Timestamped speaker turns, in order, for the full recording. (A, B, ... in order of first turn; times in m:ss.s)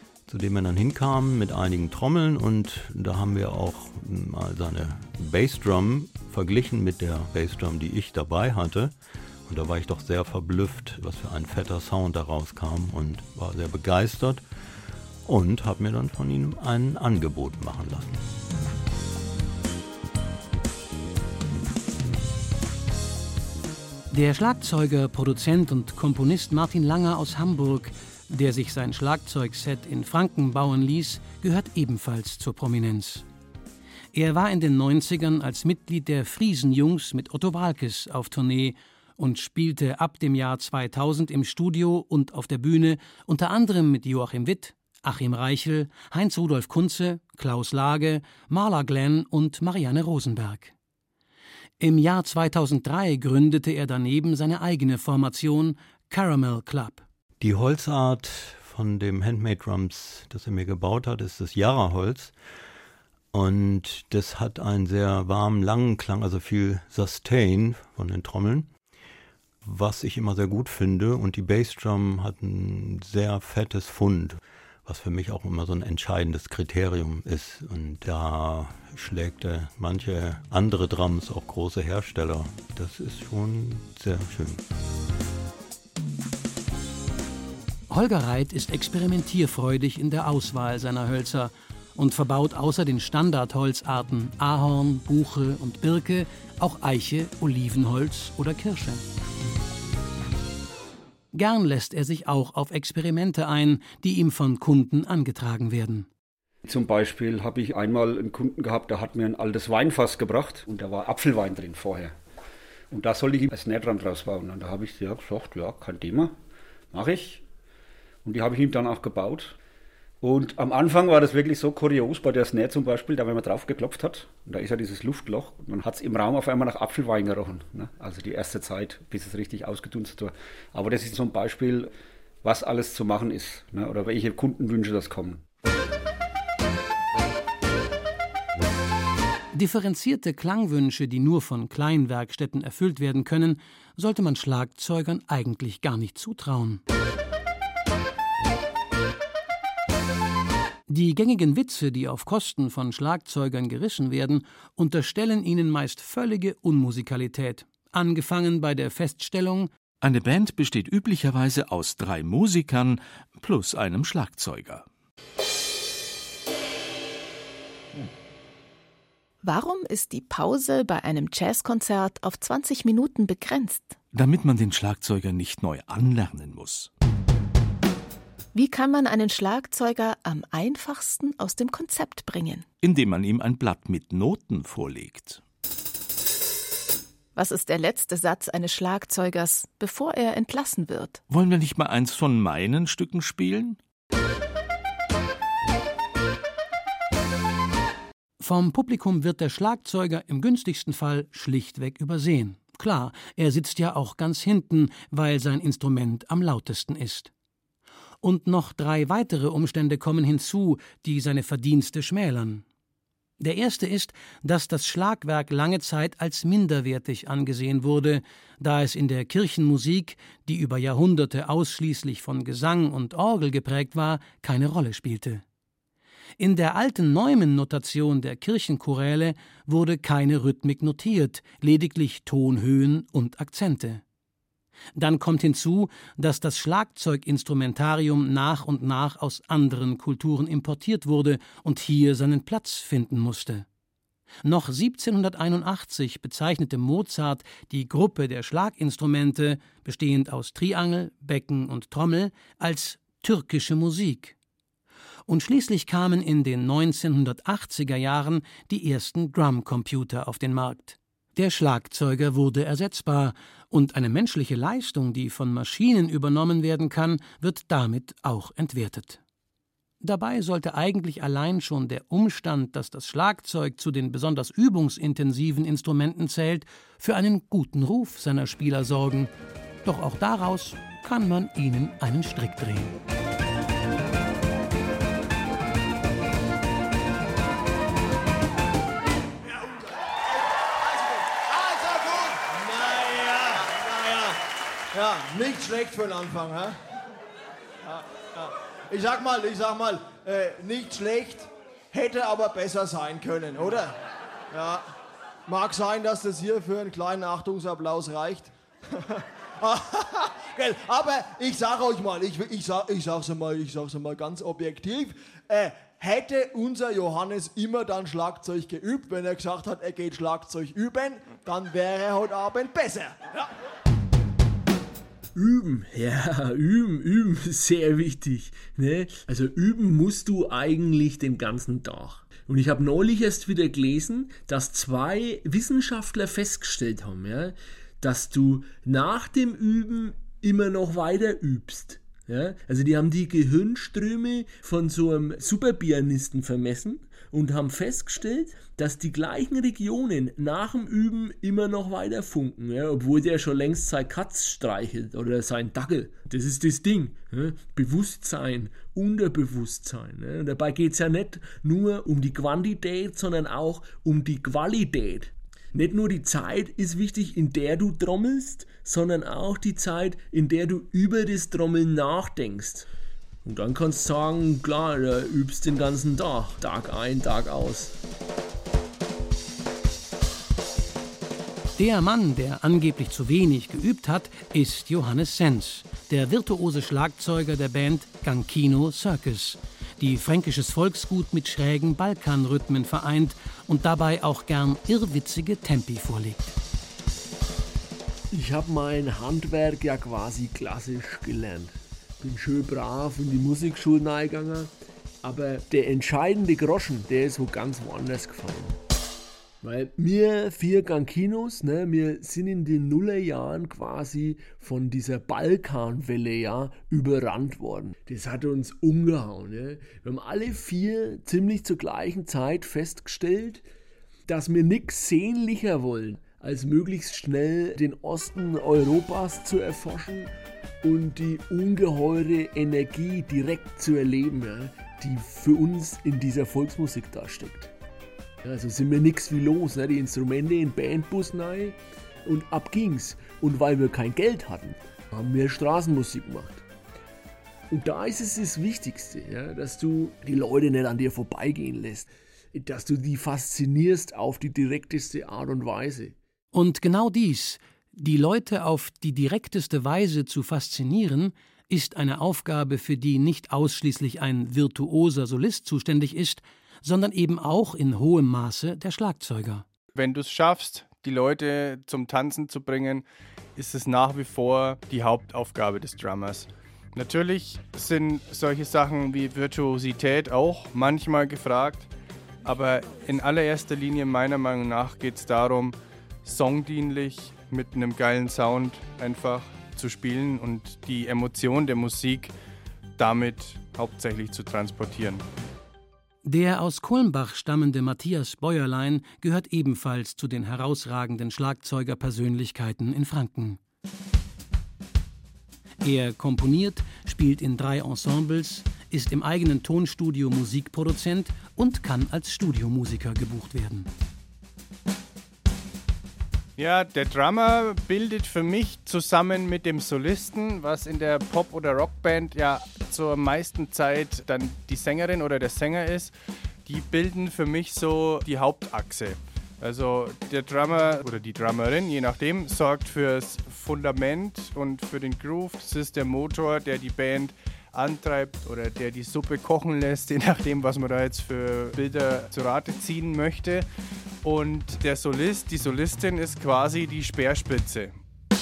0:00.3-0:08.9 A
0:09.4-0:14.4 A
0:15.2-0:18.2 A
0:24.1-0:33.2 B
0:34.1-0:50.7 B
0:51.8-0:57.0 B
0:57.4-1:02.3 A
1:03.3-1:08.7 A
1:09.6-1:24.6 A
1:27.9-1:39.0 B
1:41.3-1:46.1 B
1:46.6-1:52.1 C
1:52.9-1:56.4 C
1:56.9-1:57.4 C
1:58.2-1:59.6 C
2:00.2-2:15.4 C
2:19.5-2:26.8 B
2:30.9-2:39.7 B
2:40.0-2:44.8 D
2:49.4-2:54.0 E
2:54.1-2:56.9 D
2:58.5-3:02.6 E
3:02.8-3:05.4 D
3:07.3-3:11.2 E
3:11.3-3:13.8 D
3:18.4-3:27.3 B
3:28.2-3:32.6 B
3:33.4-3:45.4 B
3:46.4-3:54.0 B
3:54.9-4:03.6 B
4:04.4-4:14.4 B
4:15.3-4:29.2 B
4:30.0-4:39.3 B
4:39.8-4:42.9 B
4:49.4-4:54.4 F
4:54.9-4:56.8 F
4:57.8-5:03.9 F
5:04.5-5:04.8 F
5:05.5-5:23.5 F
5:25.3-6:12.9 G
6:13.4-6:18.0 G
6:21.8-6:36.5 B
6:38.3-6:48.8 G
6:49.6-7:03.6 G
7:04.3-7:17.7 G
7:18.4-7:26.6 G
7:27.7-7:36.2 G
7:36.5-7:49.6 B
7:49.9-7:53.0 H
7:53.6-8:01.9 H
8:02.4-8:12.3 H
8:13.0-8:15.2 H
8:16.2-8:23.6 B
8:25.8-8:33.9 B
8:36.6-8:46.1 H
8:46.6-9:03.6 H
9:04.2-9:07.9 H